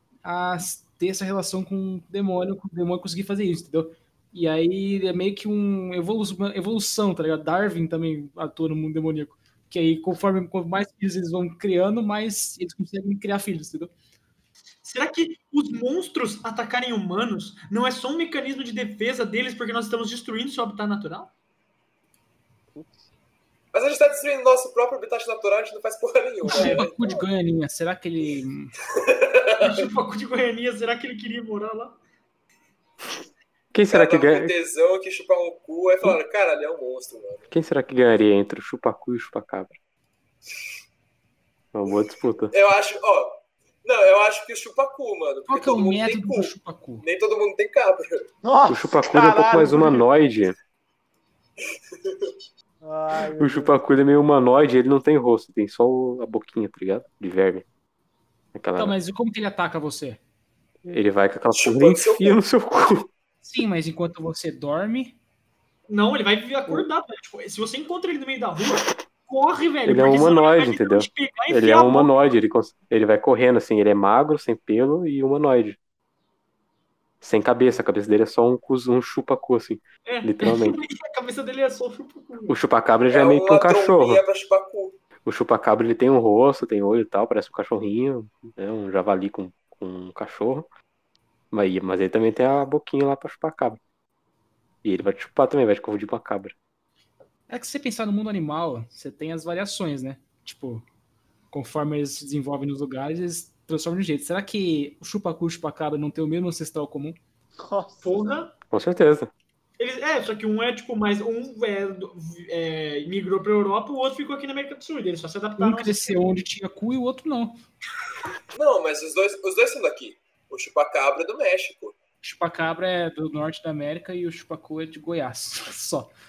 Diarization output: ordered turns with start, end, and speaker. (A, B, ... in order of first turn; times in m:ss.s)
0:00.2-0:13.9 A
0:14.8-0:21.3 B
0:22.7-0:23.1 C
0:23.7-0:27.2 D
0:26.4-0:28.7 A
0:28.9-0:29.9 D
0:29.6-0:32.0 B
0:33.7-0:34.5 E
0:33.9-0:37.4 D
0:37.5-0:39.8 E
0:41.7-0:42.5 E
0:42.5-0:48.3 D
0:45.5-0:47.0 A
0:48.4-0:50.0 C
0:48.7-0:50.5 E
0:51.9-0:52.3 D
0:52.8-0:53.8 C
0:53.4-0:57.6 E
0:58.5-0:59.0 E
0:58.8-1:00.2 A
1:00.8-1:03.1 E
1:01.5-1:02.4 D
1:03.4-1:05.2 A
1:05.9-1:12.1 B
1:09.8-1:15.8 E
1:17.2-1:20.8 E
1:20.1-1:22.6 B
1:22.5-1:24.2 E
1:23.1-1:25.0 D
1:25.2-1:30.7 E
1:31.5-1:33.8 E
1:34.8-1:36.5 E
1:37.5-1:40.8 A
1:41.5-1:47.2 A
1:47.6-1:48.4 C
1:48.0-1:48.5 B
1:48.7-1:49.3 E
1:49.8-1:56.1 B
1:55.6-1:57.6 A
1:58.5-2:01.9 D
2:02.2-2:06.1 A